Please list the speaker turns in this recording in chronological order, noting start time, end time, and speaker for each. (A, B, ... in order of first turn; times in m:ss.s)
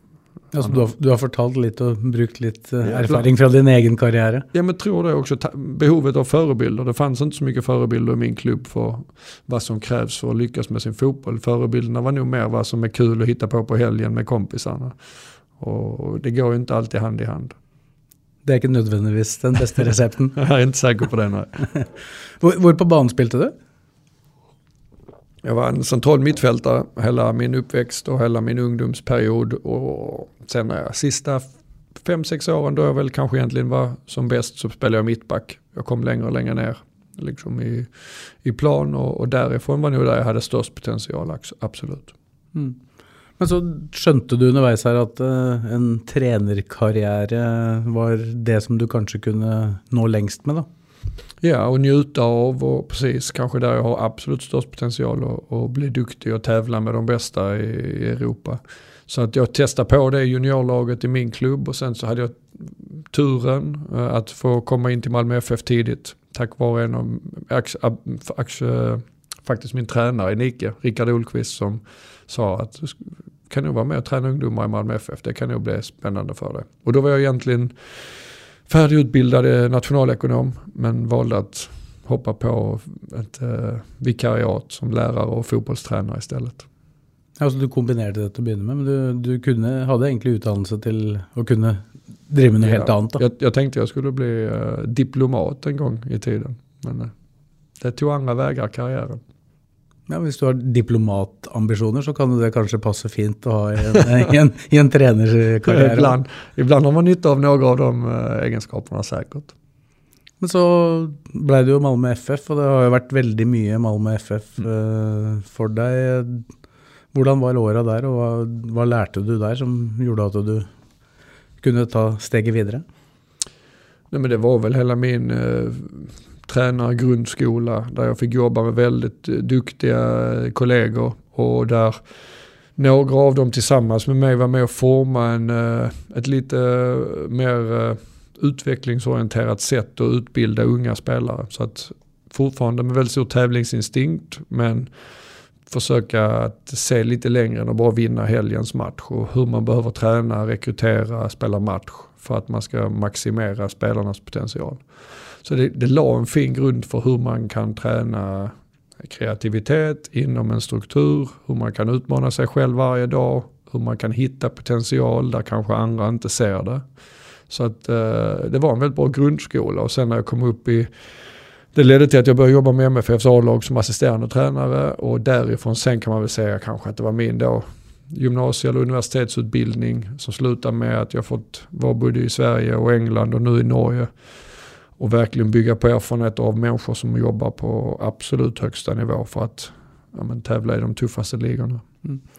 0:00.5-0:04.4 A
0:00.6-0:00.8 B
0:02.8-0:03.3 B
0:04.5-0:15.0 B
0:15.6-0:17.6 B
0:18.4-0:20.4 A
0:20.4-0:21.6 B
0:22.4-0:23.5 A
0:25.4-0:31.5 B
0:32.0-0:42.1 B
0:43.4-0:50.7 A
0:51.4-1:17.8 B
1:18.7-1:26.7 B
1:27.4-1:33.2 A
1:32.6-1:37.1 B
1:37.8-1:39.2 B
1:40.1-1:46.2 A
1:43.9-1:44.2 B
1:45.7-1:49.5 B
1:50.4-1:56.4 A
1:57.1-2:00.7 A
2:01.6-2:02.8 A
2:04.1-2:12.0 B
2:12.8-2:24.9 B
2:25.7-2:34.8 B
2:35.4-2:46.8 B
2:47.5-2:50.9 B
2:51.7-3:04.1 B
3:05.0-3:11.8 B